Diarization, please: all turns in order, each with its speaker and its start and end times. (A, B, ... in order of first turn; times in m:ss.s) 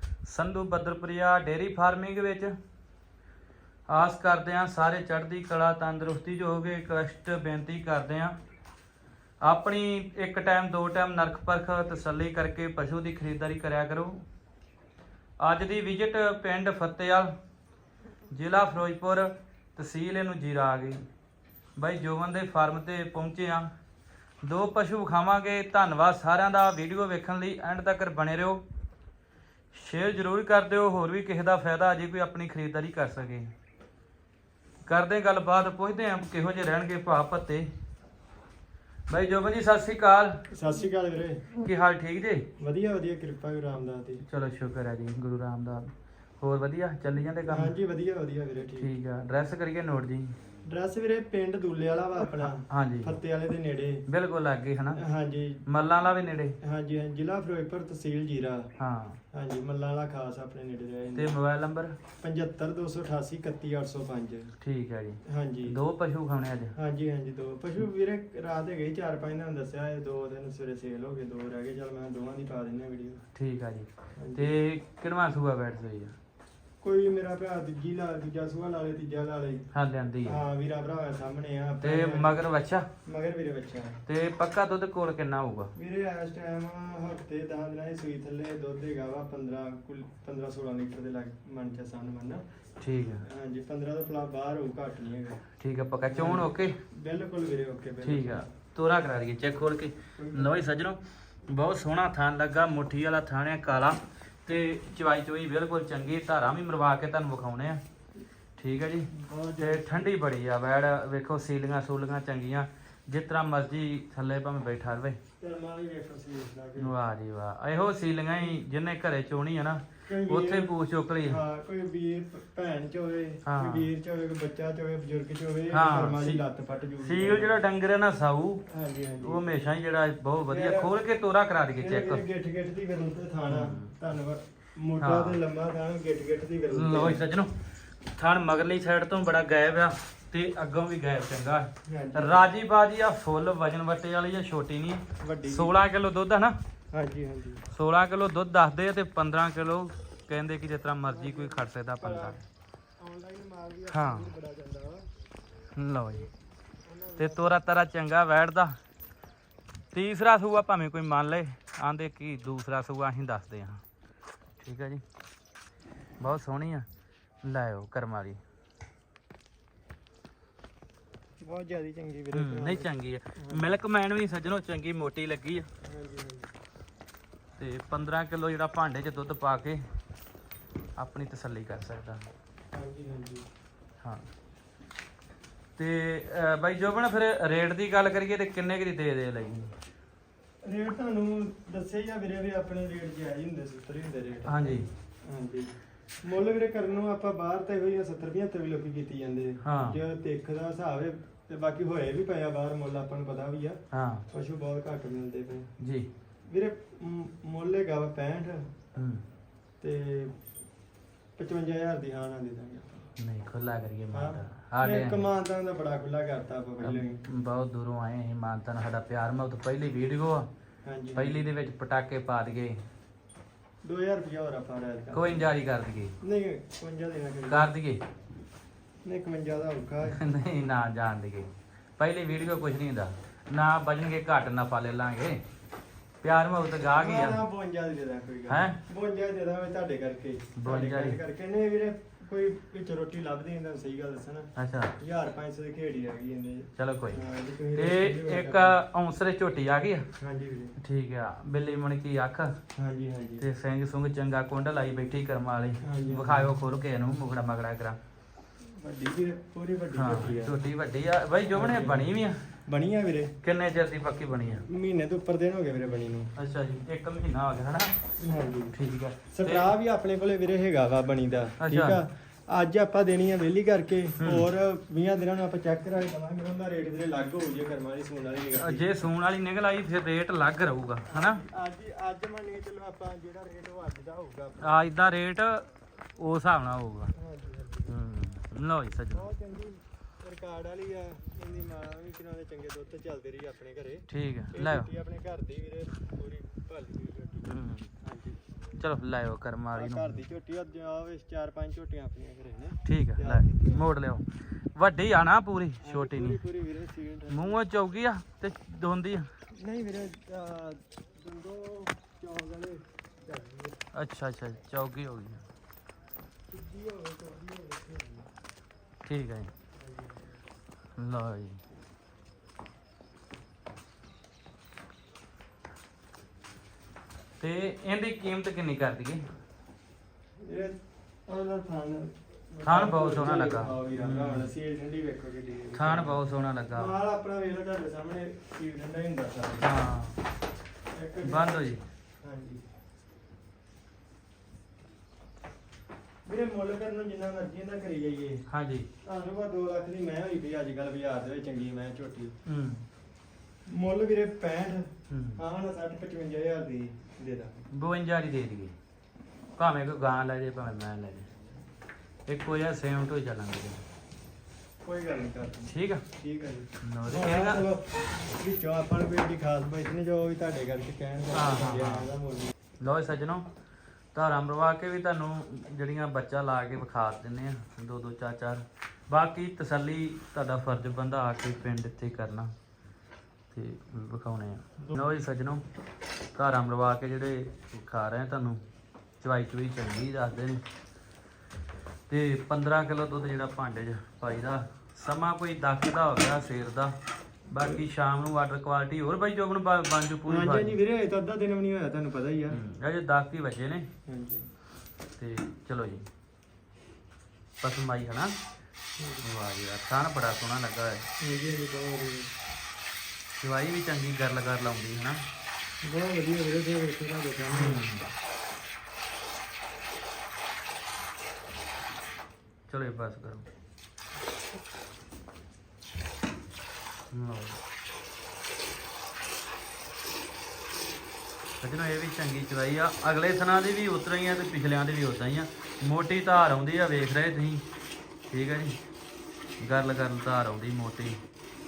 0:00.2-0:02.5 A
0:03.9-0:08.4 A
0:09.4-0:14.2 A
0:15.4-0:17.3 A
0:18.3-0:21.1 A
0:21.8-0:23.7 A
0:24.4-0:28.6 A
0:29.7-0:33.5 A
0:34.9-0:37.7 A
0:39.1-0:40.4 A
0:40.5-0:41.5 B
0:41.6-0:42.5 A
0:42.6-0:44.2 B
0:44.2-0:47.8 A
0:47.5-0:48.9 B
0:48.8-0:50.4 A
0:50.7-0:54.0 B
0:52.4-0:53.2 A
0:54.1-0:55.0 A
0:55.0-0:55.7 B
0:55.7-0:56.6 A
0:56.6-0:58.7 B
0:58.8-0:59.2 A
0:59.3-1:01.4 B
1:01.1-1:02.0 A
1:02.2-1:04.5 B
1:04.6-1:06.8 A
1:05.2-1:05.8 B
1:06.8-1:13.2 B
1:13.4-1:16.2 A
1:14.2-1:14.5 B
1:16.8-1:19.7 B
1:19.7-1:20.4 A
1:20.2-1:22.5 B
1:21.8-1:22.9 A
1:23.0-1:24.0 B
1:24.1-1:25.7 A
1:25.8-1:32.4 B
1:32.8-1:33.2 A
1:33.2-1:35.4 B
1:35.6-1:36.8 A
1:36.1-1:38.5 B
1:38.0-1:47.8 A
1:40.2-1:40.6 B
1:48.6-1:55.2 A
1:49.1-1:50.1 B
1:55.4-1:56.9 B
1:56.8-2:01.4 A
2:00.1-2:00.7 B
2:01.3-2:07.6 B
2:03.4-2:03.9 A
2:05.7-2:06.4 A
2:07.0-2:08.6 A
2:08.7-2:09.4 B
2:09.2-2:12.2 A
2:10.5-2:11.0 B
2:11.8-2:17.2 B
2:13.5-2:14.0 A
2:15.0-2:15.4 A
2:16.7-2:26.6 A
2:21.9-2:22.5 B
2:25.2-2:25.7 B
2:26.9-2:27.6 B
2:27.7-2:32.4 A
2:31.1-2:32.4 B
2:33.0-2:35.1 B
2:33.9-2:34.3 A
2:35.8-2:36.3 A
2:36.8-2:37.6 B
2:37.2-2:38.8 A
2:39.9-2:43.8 A
2:44.6-2:45.0 A
2:46.2-2:46.9 A
2:47.4-2:48.4 A
2:51.4-2:53.7 B
2:52.3-2:55.7 A
2:55.8-2:56.5 B
2:57.6-2:59.8 A
3:01.0-3:02.3 A
3:02.7-3:03.5 B
3:05.8-3:09.7 A
3:10.6-3:25.7 B
3:14.5-3:14.9 A
3:19.6-3:20.0 A
3:23.9-3:24.2 A
3:25.8-3:26.1 A
3:26.5-3:28.9 B
3:29.0-3:29.2 A
3:29.8-3:30.4 B
3:31.4-3:33.1 B
3:33.2-3:35.3 A
3:34.1-3:37.2 B
3:36.8-3:40.5 A
3:40.8-3:41.5 B
3:41.1-3:42.8 A
3:43.8-3:45.5 B
3:45.1-3:46.2 A
3:46.2-3:47.7 B
3:47.5-3:48.0 A
3:49.0-3:50.2 B
3:50.1-3:55.4 A
3:56.2-3:57.4 A
3:56.9-4:08.8 B
3:58.5-3:58.8 A
4:00.6-4:01.2 A
4:04.6-4:05.0 A
4:06.8-4:07.2 A
4:07.8-4:10.1 A
4:10.2-4:10.8 B
4:10.8-4:12.6 A
4:12.8-4:13.4 B
4:13.4-4:18.0 A
4:15.8-4:16.5 B
4:18.8-4:20.6 B
4:20.0-4:22.5 A
4:21.5-4:23.4 B
4:23.4-4:24.7 A
4:24.6-4:26.3 B
4:26.4-4:27.9 A
4:28.2-4:28.8 B
4:28.7-4:29.7 A
4:29.3-4:38.9 B
4:31.6-4:32.0 A
4:34.2-4:34.5 A
4:38.6-4:41.4 A
4:41.1-4:44.9 B
4:44.6-4:47.1 A
4:47.2-4:48.0 B
4:47.9-4:49.3 A
4:49.1-4:58.4 B
4:54.1-4:54.9 A
4:57.5-4:57.9 A
4:58.8-5:00.2 A
4:59.7-5:03.9 B
5:02.8-5:06.4 A
5:05.8-5:07.6 B
5:07.3-5:09.3 A
5:09.5-5:13.8 B
5:13.9-5:15.4 A
5:16.5-5:18.3 B
5:19.1-5:19.5 A
5:19.8-5:20.3 B
5:21.0-5:21.6 A
5:27.4-5:29.2 A
5:30.4-5:36.2 B
5:32.6-5:34.5 A
5:35.7-5:37.0 A
5:36.7-5:39.7 B
5:39.6-5:40.2 A
5:40.9-5:41.7 B
5:41.2-5:41.8 A
5:42.2-5:42.6 B
5:46.2-5:48.4 B
5:48.5-5:48.9 A
5:49.0-5:52.4 B
5:52.5-5:52.8 A
5:53.7-5:57.7 B
5:55.1-5:55.4 A
5:57.7-5:58.7 A
5:59.6-6:01.3 A
6:02.3-6:03.8 A
6:04.8-6:12.5 B
6:05.7-6:06.1 A
6:06.8-6:07.7 A
6:11.3-6:12.1 A
6:12.8-6:13.4 A
6:14.1-6:22.5 A
6:23.5-6:25.6 A
6:26.4-6:28.6 A
6:29.2-6:30.6 A
6:32.1-6:37.0 A
6:37.5-6:40.8 A
6:40.3-6:42.6 B
6:42.5-6:43.9 A
6:44.1-6:44.5 B
6:45.2-6:46.1 A
6:47.6-6:48.4 A
6:49.0-6:49.2 B
6:49.2-6:51.1 A
6:51.2-6:52.3 B
6:53.4-6:55.2 A
6:55.8-6:57.9 B
6:57.5-6:58.1 A
7:02.7-7:03.5 A
7:07.1-7:07.6 A
7:11.6-7:17.6 A
7:18.3-7:18.8 A
7:19.6-7:21.2 A